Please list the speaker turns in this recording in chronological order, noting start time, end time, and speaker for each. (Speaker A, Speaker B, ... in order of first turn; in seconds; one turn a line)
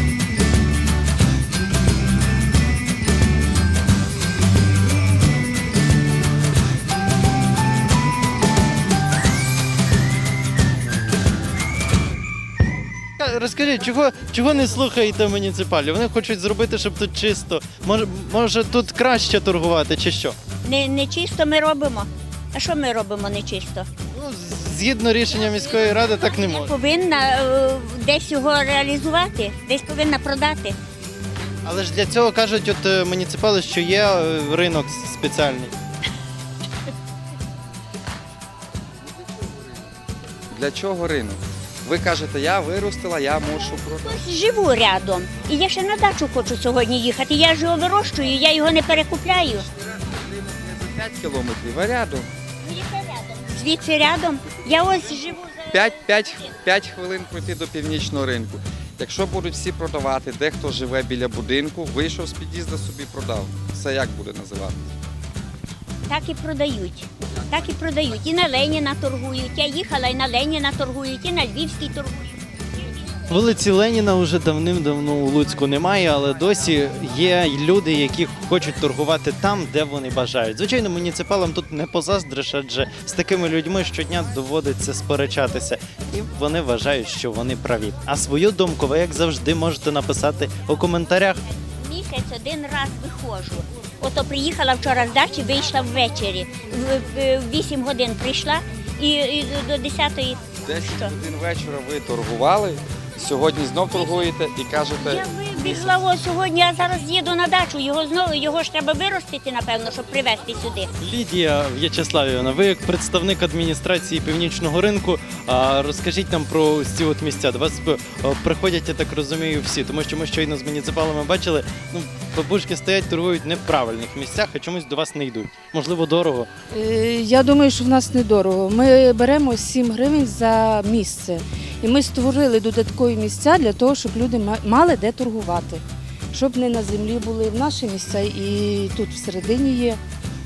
Speaker A: 13.2-20.4
Speaker B: 20.6-23.9
Speaker A: 24.1-26.7
Speaker B: 25.4-30.8
Speaker A: 31.6-35.7
Speaker C: 40.5-44.2
Speaker B: 43.6-49.7
Speaker C: 49.8-52.3
Speaker B: 52.6-56.6
Speaker C: 55.7-64.9
Speaker B: 66.1-73.0
Speaker C: 67.4-67.8
Speaker A: 73.3-91.4
Speaker B: 91.8-101.1
Speaker C: 100.7-106.0
Speaker B: 104.9-110.9
Speaker A: 111.0-126.5
Speaker D: 126.7-140.0